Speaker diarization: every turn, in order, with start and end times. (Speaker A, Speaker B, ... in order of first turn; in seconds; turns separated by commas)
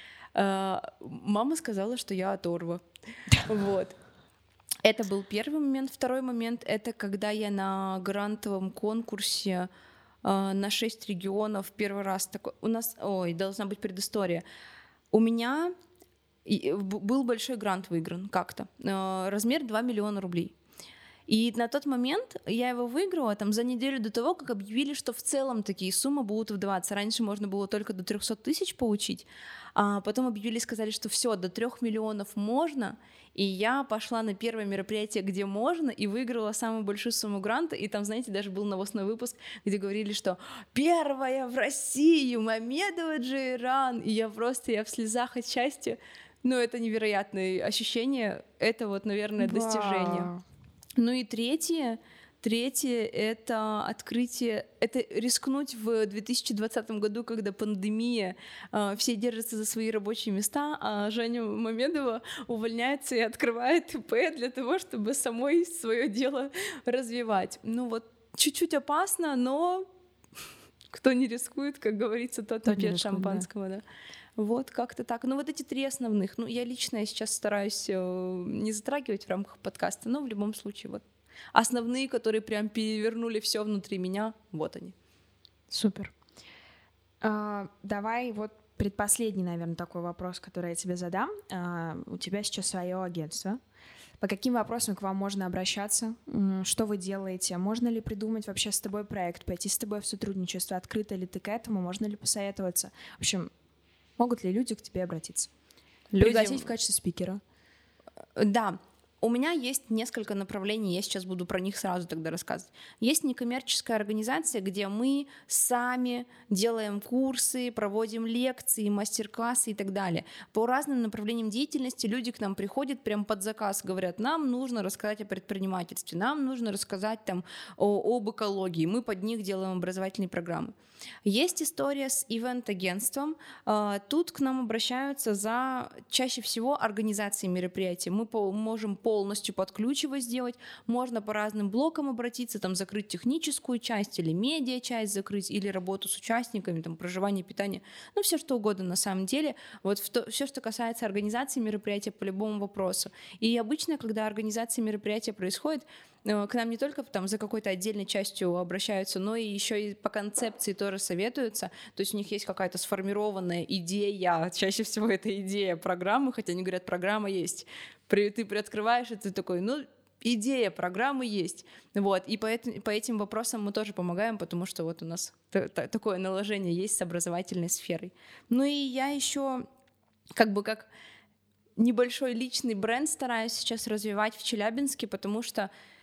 Speaker A: 0.3-2.8, Speaker A: 3.4-4.0, Speaker A: 4.8-9.7, Speaker A: 10.2-14.4, Speaker A: 15.1-15.7, Speaker A: 16.4-20.6, Speaker A: 21.3-50.3, Speaker B: 49.4-50.4, Speaker A: 51.0-69.9, Speaker A: 70.9-73.8, Speaker B: 72.7-73.5, Speaker A: 74.4-84.9, Speaker A: 85.7-86.1, Speaker B: 87.2-93.6, Speaker B: 94.2-103.5, Speaker B: 104.2-105.5, Speaker A: 106.1-106.7, Speaker B: 106.2-107.4, Speaker A: 108.4-130.7, Speaker A: 131.2-179.7, Speaker A: 180.3-180.9, Speaker A: 181.8-185.7